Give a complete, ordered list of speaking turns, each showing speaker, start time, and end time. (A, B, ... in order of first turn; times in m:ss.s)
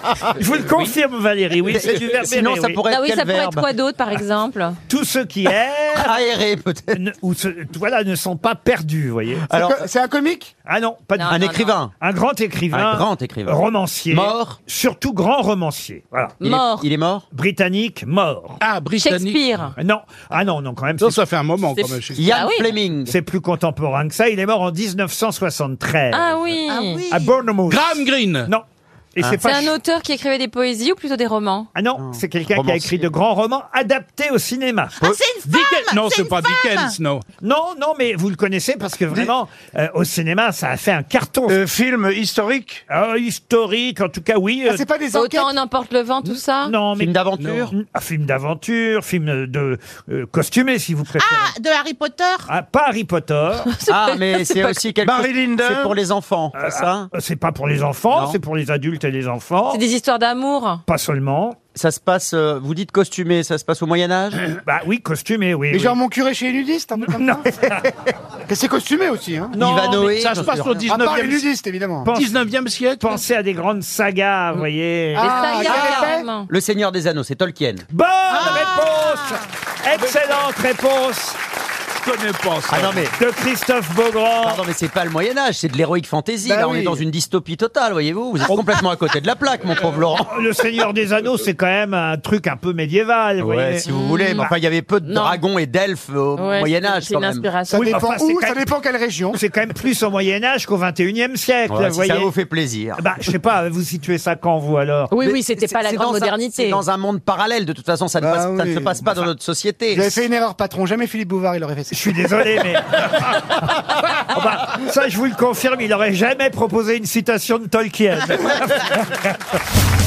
0:00.3-0:02.8 A
0:00.7-0:00.9 B
0:01.7-0:03.7 C
0:02.8-0:04.8 D
0:04.9-0:06.2 A
0:05.9-0:07.0 C
0:06.9-0:09.5 A
0:09.5-0:09.8 C
0:09.5-0:10.5 E
0:10.6-0:16.4 A
0:11.2-0:11.8 D
0:11.2-0:11.9 C
0:12.7-0:14.6 C
0:16.4-0:16.9 D
0:16.4-0:17.2 C
0:17.3-0:18.6 A
0:18.6-0:19.5 B
0:19.0-0:19.7 D
0:19.8-0:21.2 A
0:21.0-0:22.4 B
0:21.8-0:22.7 D
0:22.1-0:23.1 C
0:23.1-0:26.5 A
0:26.1-0:27.0 D
0:26.7-0:27.3 F
0:27.1-0:28.0 A
0:27.7-0:28.5 B
0:29.2-0:29.7 A
0:29.3-0:31.7 D
0:31.7-0:35.2 A
0:32.0-0:33.1 C
0:35.0-0:36.9 F
0:35.4-0:37.2 B
0:37.4-0:41.6 A
0:41.5-0:42.8 G
0:42.9-0:44.8 A
0:44.6-0:45.5 E
0:45.1-0:46.7 D
0:46.6-0:47.2 A
0:47.0-0:47.7 C
0:47.7-0:51.5 A
0:51.2-0:52.5 F
0:52.5-0:53.7 A
0:53.7-0:54.8 D
0:53.9-0:57.1 C
0:55.0-0:55.9 G
0:56.6-0:59.8 A
0:58.1-0:58.4 C
0:59.7-1:00.8 D
1:00.9-1:01.6 A
1:01.7-1:04.4 C
1:04.6-1:06.0 A
1:05.7-1:07.5 E
1:07.0-1:07.8 A
1:08.5-1:09.5 E
1:09.5-1:10.8 C
1:09.5-1:10.1 A
1:10.0-1:11.4 B
1:10.9-1:12.1 E
1:12.0-1:12.4 A
1:12.1-1:13.1 B
1:13.0-1:16.0 A
1:15.2-1:16.2 E
1:15.2-1:16.5 D
1:15.7-1:17.8 C
1:17.9-1:21.4 A
1:18.3-1:19.4 F
1:21.9-1:23.1 B
1:22.7-1:23.1 C
1:23.2-1:24.6 A
1:24.4-1:30.4 C
1:26.4-1:27.0 E
1:30.3-1:33.8 A
1:33.4-1:37.5 C
1:33.8-1:34.5 D
1:35.0-1:35.4 D
1:36.4-1:38.0 D
1:37.7-1:39.4 E
1:37.8-1:38.6 A
1:39.3-1:42.3 A
1:41.7-1:43.0 C
1:43.0-1:45.1 A
1:45.1-1:46.8 D
1:45.2-1:50.2 C
1:48.2-1:49.0 E
1:49.9-1:52.2 E
1:51.9-1:53.3 A
1:54.3-1:59.4 A